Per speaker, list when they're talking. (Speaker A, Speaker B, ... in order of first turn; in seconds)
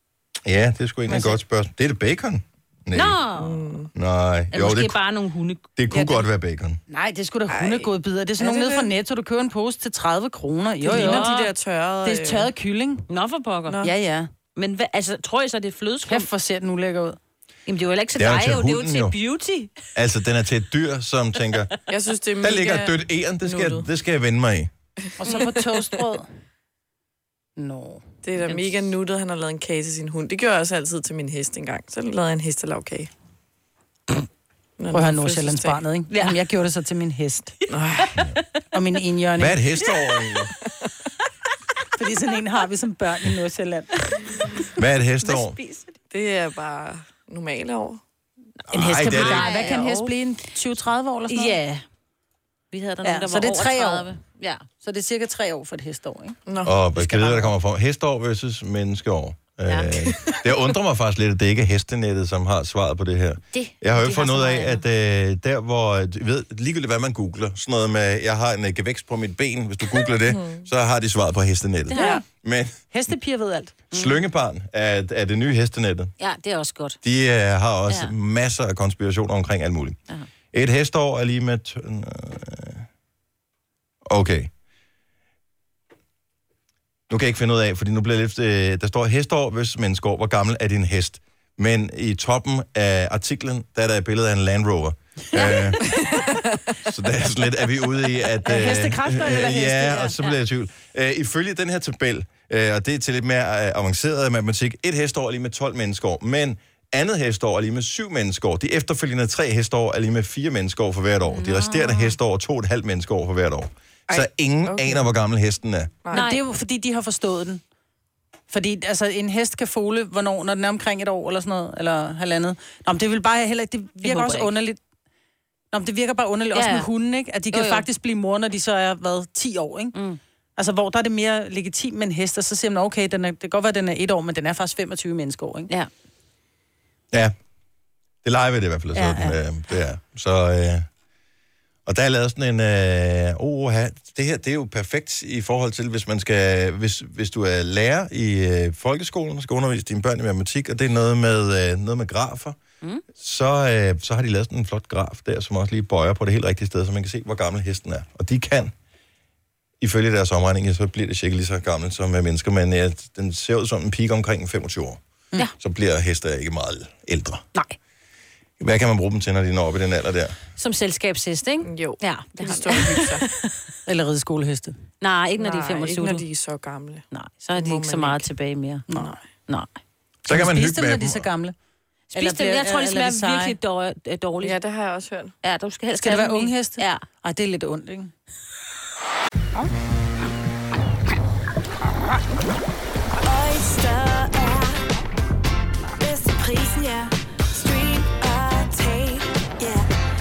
Speaker A: 0.4-3.2, 3.9-5.0, 5.8-6.8, 18.1-19.2, 19.9-21.7, 22.4-24.7, 39.4-40.5, 44.8-45.6, 48.7-49.6, 56.6-72.7, 73.9-76.1, 77.0-80.0, 80.5-82.8, 84.1-84.5, 87.1-95.8, 96.8-116.0, 138.2-140.8, 141.8-152.6, 153.1-158.7, 159.8-165.0, 165.6-167.4, 168.6-170.3, 180.3-181.2
Speaker B: 2.9-3.6, 4.5-6.2, 10.8-11.5, 13.1-13.9, 14.5-16.3, 17.7-19.7, 28.4-28.7, 36.1-36.4, 45.2-45.9, 49.0-49.9, 51.3-51.8, 52.7-54.6, 63.5-64.8, 71.9-72.2, 73.9-74.2, 76.2-77.0, 95.3-95.7, 111.3-112.1, 116.1-116.4, 124.0-124.5, 126.5-126.9, 127.5-127.8, 129.9-130.2, 170.6-173.2, 175.0-176.2, 177.1-178.8, 182.1-184.6, 185.4-187.0
Speaker C: 3.3-3.9, 7.5-8.9, 10.8-12.5, 21.9-23.9, 28.2-33.1, 34.8-35.8, 37.7-38.1, 46.1-48.0, 49.2-50.1, 56.5-56.8, 70.2-70.6, 72.0-72.2, 95.9-96.3, 114.1-115.1, 171.6-173.2, 175.4-178.3, 184.4-185.3
Speaker D: 6.9-11.4, 12.0-13.0, 13.8-14.3, 16.1-17.2, 25.2-26.3, 27.6-28.0, 34.9-37.5, 38.7-39.6, 42.0-44.3, 48.7-51.6, 53.0-54.1, 54.8-56.4, 57.0-57.5, 72.0-72.2, 72.9-73.8, 98.4-100.2, 116.1-117.6, 118.5-124.8, 125.7-130.0, 130.6-135.7, 138.9-139.4, 173.8-174.8, 180.3-181.5, 182.1-183.6, 186.0-188.1
Speaker E: 193.2-194.8, 196.0-199.9